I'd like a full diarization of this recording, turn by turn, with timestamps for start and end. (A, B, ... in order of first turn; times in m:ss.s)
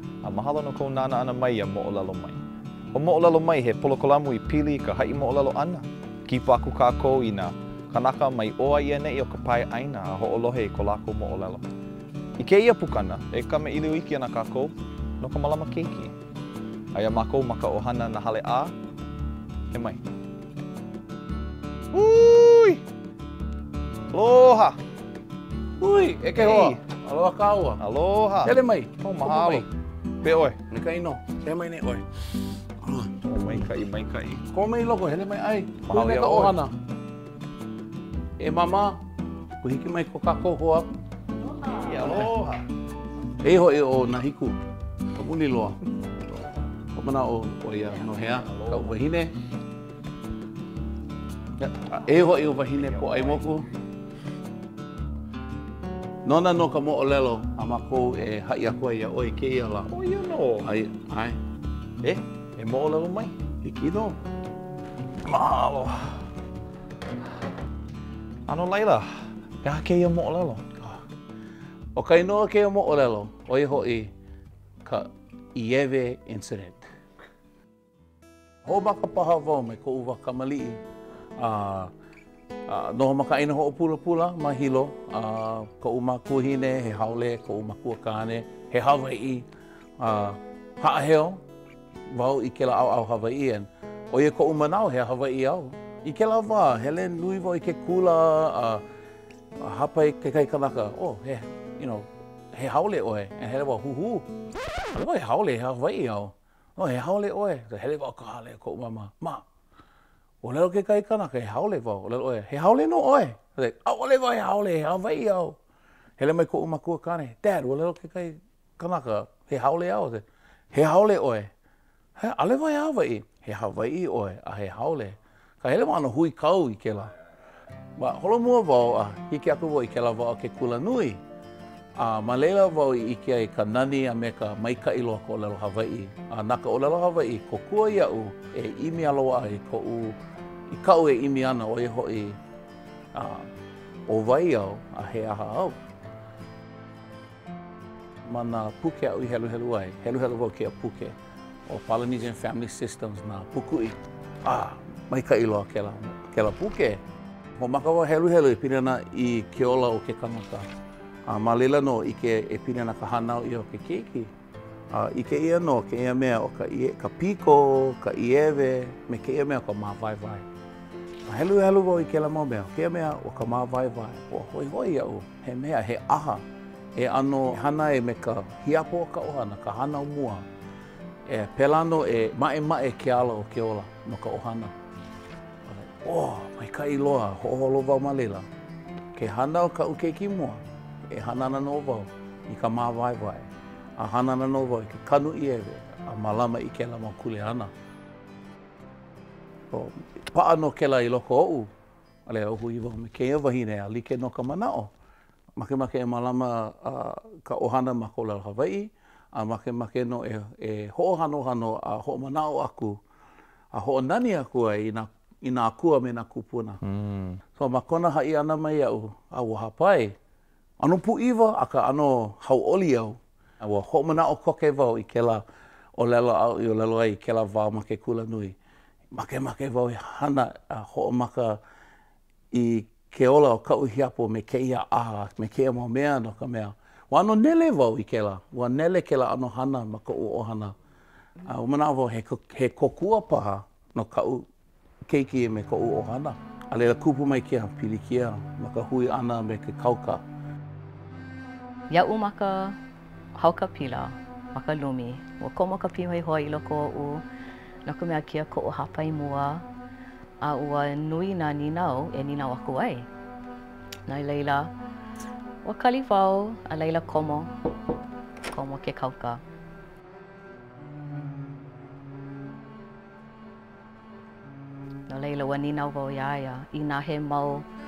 0:00.2-0:02.4 A
0:02.9-0:11.7 A
0:12.4-0:16.2 A
0:16.9-0:18.7 A
0:19.7-0:20.0 A
0:21.9-0:22.8 A
0:24.1-0:24.8 A
0:25.8-0:27.8 B
0:26.4-0:26.8 A
0:27.8-0:29.7 A
0:28.4-0:29.7 B
0:30.2-0:30.6 A
0:30.7-0:32.0 B
0:32.8-0:33.1 B
0:33.2-0:34.4 A
0:34.5-0:36.7 B
0:35.9-0:36.6 A
0:38.4-0:39.0 B
0:39.6-0:40.9 B
0:41.7-0:42.6 A
0:42.0-0:42.3 B
0:43.4-0:44.6 B
0:45.1-0:45.8 B
0:47.0-0:49.3 B
0:48.1-0:48.9 A
0:51.6-0:53.7 B
0:52.9-0:53.4 A
0:56.2-0:59.9 B
0:59.9-1:00.7 A
1:00.6-1:01.4 B
1:02.0-1:03.4 A
1:03.6-1:04.2 B
1:05.2-1:06.1 A
1:08.5-1:09.1 A
1:09.6-1:10.6 A
1:12.0-1:14.1 B
1:14.8-1:16.9 B
1:18.6-1:20.8 B
1:21.4-1:21.9 B
1:22.7-1:29.5 B
1:30.0-1:31.4 B
1:32.1-1:38.8 B
1:39.6-1:44.3 B
1:44.9-1:49.4 B
1:50.4-1:55.6 B
1:56.2-2:01.5 B
2:02.2-2:07.1 B
2:08.0-2:11.2 B
2:12.0-2:20.2 B
2:20.7-2:22.4 B
2:23.1-2:23.5 B
2:24.1-2:25.8 B
2:28.3-2:31.2 B
2:31.7-2:37.0 B
2:37.6-2:40.7 B
2:41.3-2:44.3 B
2:44.9-2:50.5 B
2:51.3-2:56.4 B
2:57.0-3:00.4 B
3:01.3-3:04.7 B
3:05.7-3:08.5 B
3:09.2-3:17.7 B
3:19.7-3:21.7 B
3:22.3-3:24.9 B
3:25.6-3:33.0 B
3:33.7-3:36.8 B
3:36.8-3:37.4 A
3:37.6-3:40.2 B
3:40.8-3:45.4 B
3:46.0-3:48.6 B
3:49.1-3:51.6 B
3:52.5-4:00.8 B
4:01.4-4:04.5 B
4:05.1-4:10.2 B
4:11.9-4:12.8 C
4:13.4-4:17.2 C
4:17.8-4:19.6 C
4:20.4-4:23.1 C
4:24.1-4:24.7 C
4:25.6-4:27.5 C
4:28.5-4:29.4 C
4:35.1-4:37.7 C